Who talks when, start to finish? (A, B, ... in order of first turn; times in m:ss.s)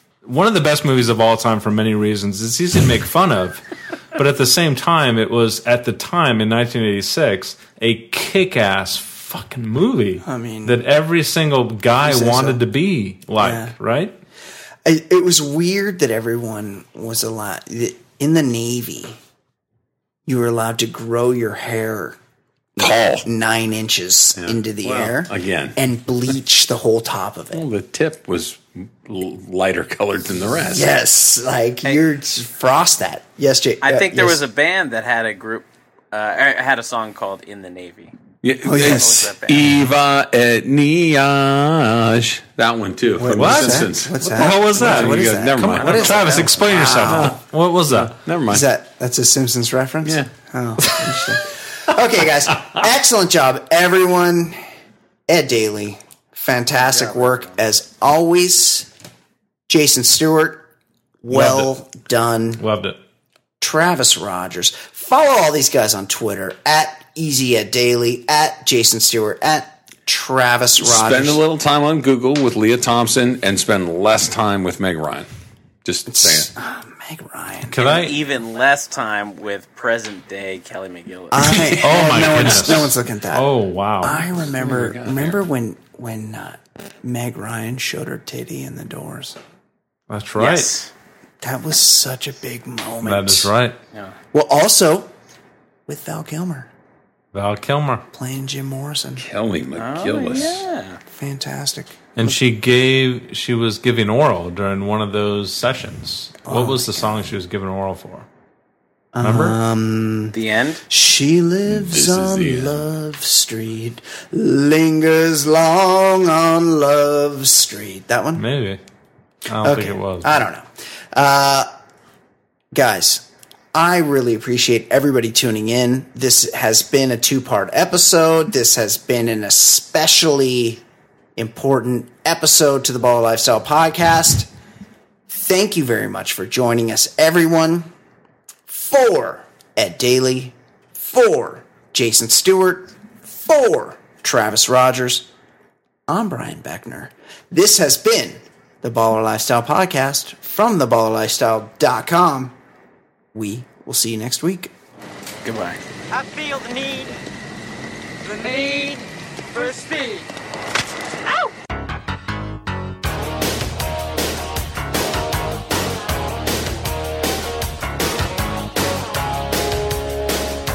0:00.2-0:03.6 A
0:04.1-0:14.1 A
0:10.2-0:10.8 B
0:12.0-0:12.6 B
0:13.4-0:13.7 B
0:14.8-0:19.2 B
0:20.2-0:22.2 B
0:22.8-0:27.6 B
0:22.8-0:23.2 C
0:24.4-0:25.8 C
0:27.5-0:30.8 C
0:30.6-0:34.4 B
0:33.8-0:38.2 D
0:38.4-0:48.6 C
0:38.6-0:39.3 B
0:38.8-0:39.8 D
0:43.1-0:47.4 B
0:43.3-0:48.1 A
0:48.5-0:54.6 B
0:50.0-0:50.3 C
0:55.3-0:58.9 B
0:56.9-0:57.5 D
0:59.7-1:00.7 B
1:01.2-1:02.6 B
1:01.3-1:01.7 A
1:02.6-1:03.0 A
1:03.6-1:11.4 B
1:10.8-1:15.3 C
1:15.8-1:16.5 C
1:16.1-1:17.8 B
1:17.7-1:18.2 A
1:17.8-1:21.6 D
1:21.3-1:29.4 B
1:21.5-1:22.7 C
1:21.8-1:24.2 A
1:24.6-1:25.4 C
1:30.1-1:30.7 A
1:30.4-1:30.9 D
1:31.4-1:33.5 B
1:33.0-1:33.8 A
1:34.3-1:35.1 B
1:35.9-1:36.7 B
1:37.3-1:38.0 A
1:38.1-1:39.2 B
1:39.2-1:40.6 C
1:39.8-1:41.0 D
1:41.1-1:42.4 B
1:42.2-1:48.2 A
1:46.4-1:47.3 B
1:49.1-1:50.3 B
1:49.2-1:49.6 A
1:50.3-1:50.8 D
1:50.9-1:58.4 B
1:51.8-1:52.8 C
1:58.4-1:58.8 A
1:59.5-2:00.3 A
1:59.6-2:01.7 B
2:02.7-2:10.8 B
2:11.4-2:14.5 B
2:15.3-2:17.9 B
2:18.7-2:25.3 B
2:26.1-2:32.6 B
2:33.3-2:34.7 B
2:35.4-2:35.8 D
2:36.1-2:37.2 E
2:38.2-2:40.3 E